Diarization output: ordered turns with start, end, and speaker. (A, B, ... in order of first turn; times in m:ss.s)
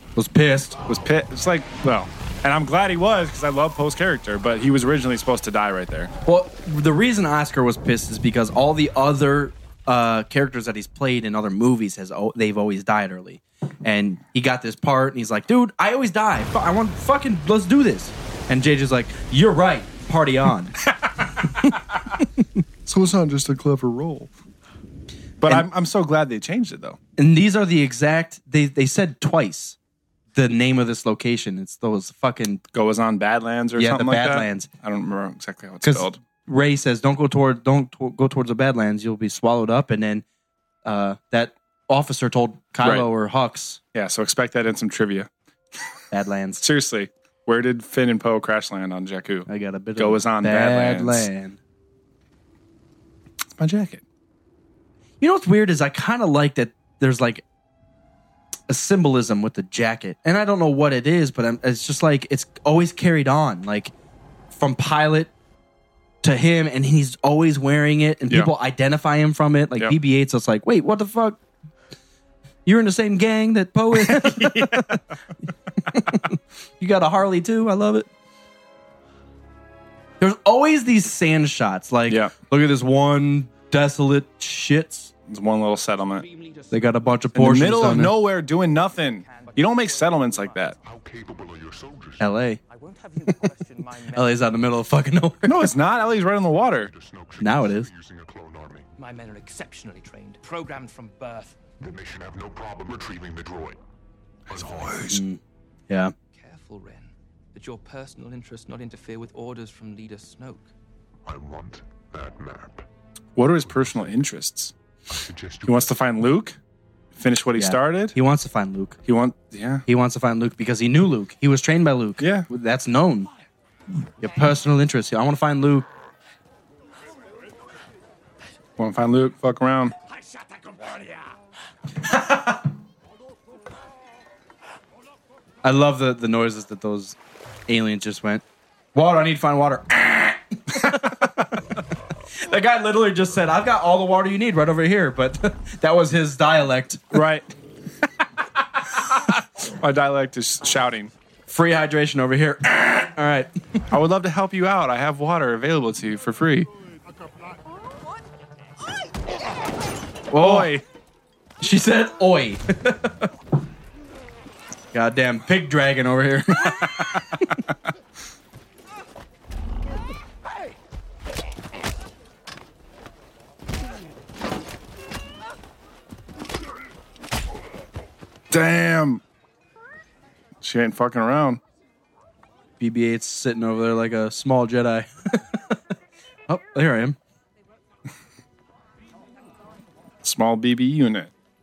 0:00.2-0:00.8 A
0:00.8-0:06.1 B
0:06.2-0:20.8 A
0:22.8-0:24.3 B
0:25.4-0:27.0 B
0:27.2-0:29.8 A
0:30.3-0:32.6 A
0:32.7-0:36.2 B
0:33.8-0:34.7 A
0:35.8-0:40.2 A
0:40.8-0:43.8 A
0:42.8-0:43.1 B
0:43.9-0:45.3 B
0:46.1-0:46.6 A
0:46.6-0:51.3 B
0:49.5-0:51.6 A
0:53.6-0:54.0 B
0:55.2-0:57.4 A
0:58.7-1:03.9 A
1:04.5-1:05.3 A
1:06.2-1:11.4 A
1:12.6-1:15.0 A
1:13.9-1:15.0 B
1:15.9-1:18.1 A
1:20.2-1:25.1 A
1:22.1-1:22.3 B
1:25.3-1:26.3 B
1:26.0-1:27.2 C
1:26.7-1:28.2 A
1:27.3-1:30.8 B
1:28.5-1:30.8 C
1:30.8-1:32.4 D
1:32.2-1:32.6 A
1:32.6-1:34.8 C
1:34.1-1:35.8 A
1:35.4-1:36.9 B
1:35.8-1:38.9 D
1:37.4-1:37.9 A
1:39.0-1:41.6 C
1:41.8-1:43.8 D
1:44.5-1:45.2 D
1:45.0-1:46.1 A
1:46.3-1:50.7 C
1:51.2-1:52.8 D
1:53.4-1:54.7 B
1:53.4-1:54.2 D
1:55.1-1:56.1 D
1:55.6-1:56.6 B
1:57.1-1:58.2 B
1:57.6-1:59.0 A
1:59.0-1:59.8 B
1:59.9-2:03.3 A
2:02.2-2:02.5 B
2:04.2-2:05.9 A
2:08.8-2:09.9 B
2:12.1-2:12.6 A
2:15.6-2:17.2 A
2:17.7-2:21.3 A
2:22.4-2:27.2 A
2:27.1-2:27.5 B
2:28.9-2:31.1 B
2:31.5-2:33.5 A
2:33.9-2:36.7 B
2:40.3-2:40.7 A
2:40.4-2:40.8 B
2:41.6-2:43.3 A
2:44.9-2:47.5 A
2:58.5-2:59.2 B
3:00.6-3:01.6 B
3:02.8-3:05.8 A
3:06.5-3:07.2 A
3:10.2-3:11.3 B